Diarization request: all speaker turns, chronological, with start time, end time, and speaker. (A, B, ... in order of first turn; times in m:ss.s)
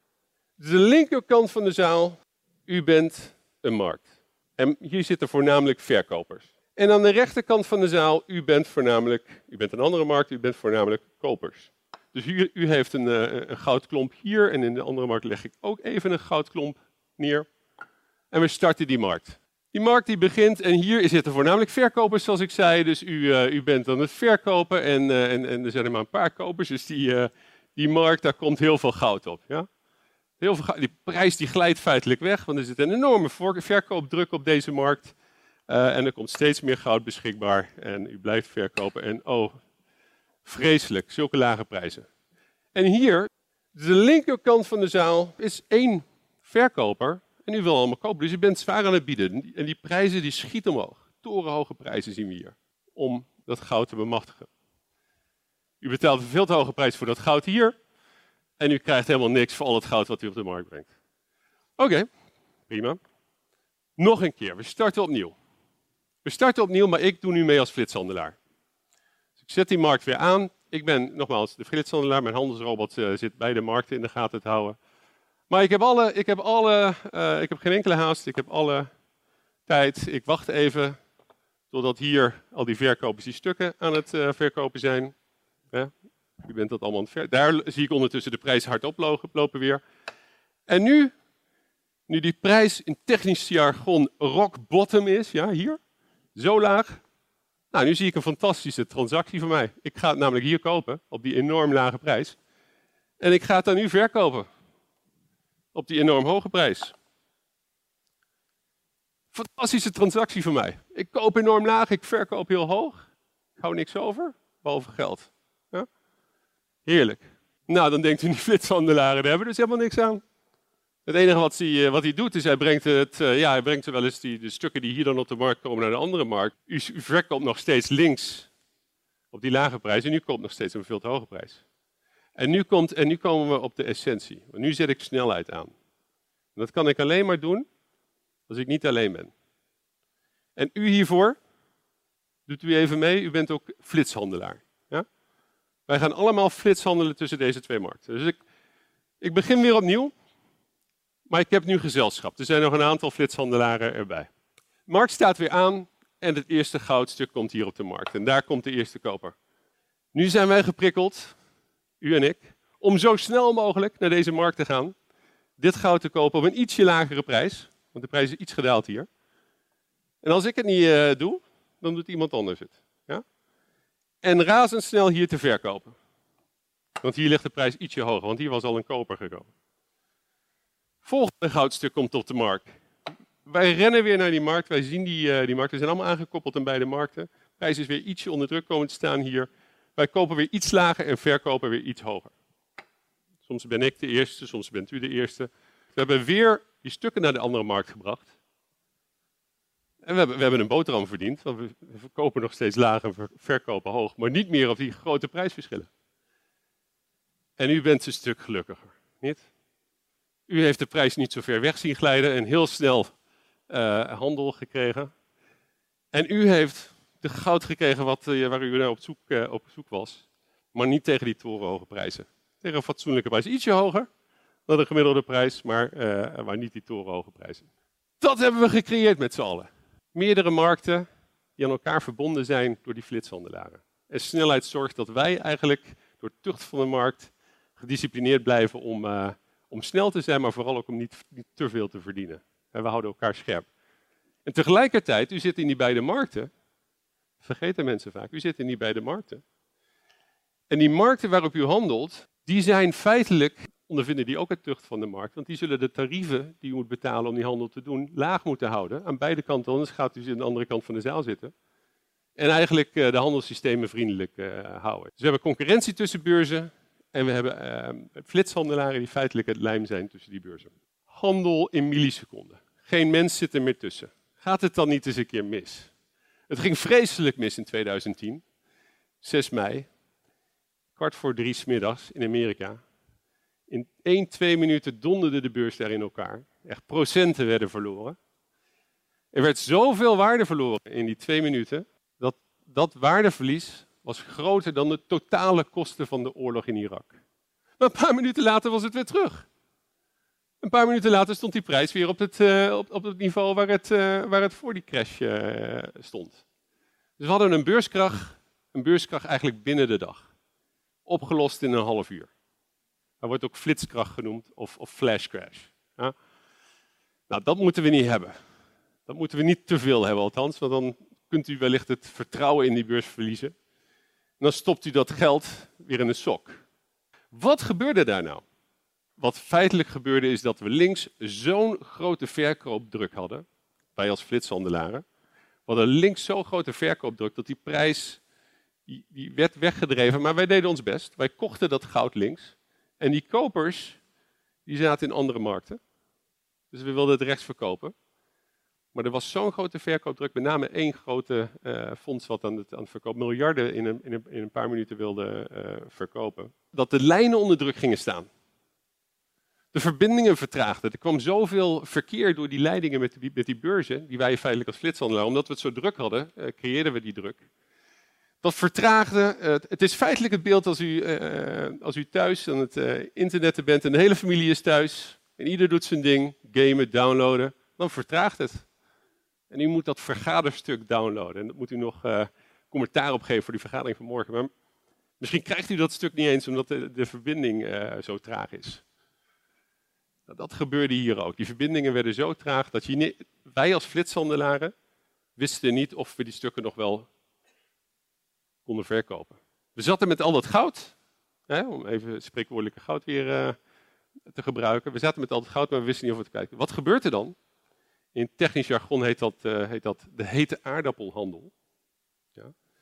0:00.6-0:17.5 A
0:18.3-0:29.7 A
0:30.4-0:35.2 A
0:35.7-0:39.5 A
0:40.4-0:42.1 A
0:42.7-0:54.5 A
0:55.8-0:57.8 A
0:58.6-1:00.9 A
1:01.8-1:02.1 A
1:02.7-1:03.0 A
1:04.0-1:05.3 A
1:06.2-1:08.4 A
1:09.4-1:14.8 A
1:15.5-1:18.9 A
1:19.6-1:21.0 A
1:21.7-1:25.1 A
1:25.7-1:29.8 A
1:30.7-1:31.1 A
1:32.1-1:35.8 A
1:36.3-1:37.0 A
1:37.7-1:42.4 A
1:43.2-1:44.5 A
1:45.7-1:47.0 A
1:49.3-1:53.0 A
1:53.6-1:55.9 A
1:56.8-2:00.2 A
2:01.0-2:08.5 A
2:09.3-2:11.6 A
2:12.4-2:15.7 A
2:16.5-2:17.7 A
2:18.5-2:19.3 A
2:20.6-2:21.4 A
2:22.5-2:25.0 A
2:25.9-2:28.4 A
2:29.2-2:30.1 A
2:31.3-2:34.3 A
2:34.9-2:39.3 A
2:40.1-2:41.4 A
2:42.0-2:44.9 A
2:45.6-2:49.1 A
2:50.2-2:53.2 A
2:54.2-2:56.0 A
2:57.0-2:59.5 A
3:01.0-3:02.7 A
3:03.4-3:12.3 A
3:13.4-3:18.3 A
3:20.0-3:25.9 A
3:27.6-3:29.5 A
3:30.5-3:33.1 A
3:33.7-3:35.1 A
3:36.1-3:44.1 A
3:44.7-3:47.7 A
3:48.2-4:03.7 A
4:04.4-4:06.5 A
4:07.4-4:09.4 A
4:10.7-4:21.5 A
4:22.4-4:35.9 A
4:36.5-4:38.4 A
4:39.2-4:39.9 A
4:40.9-4:42.8 A
4:43.7-4:48.2 A
4:49.3-4:57.2 A
4:57.8-4:59.5 A
5:00.6-5:06.4 A
5:07.2-5:10.3 A
5:11.0-5:12.3 A
5:13.2-5:16.1 A
5:17.3-5:18.4 A
5:19.1-5:23.5 A
5:24.4-5:26.6 A
5:27.3-5:28.4 A
5:29.2-5:35.0 A
5:35.6-5:38.2 A
5:38.9-5:44.0 A
5:44.6-5:45.8 A
5:46.7-5:47.9 A
5:48.9-5:58.3 A
5:59.7-6:07.4 A
6:08.4-6:18.7 A
6:19.5-6:24.5 A
6:25.2-6:28.8 A
6:30.3-6:34.7 A
6:35.4-6:37.1 A
6:38.6-6:40.9 A
6:41.5-6:43.6 A
6:44.3-6:47.4 A
6:48.1-6:51.5 A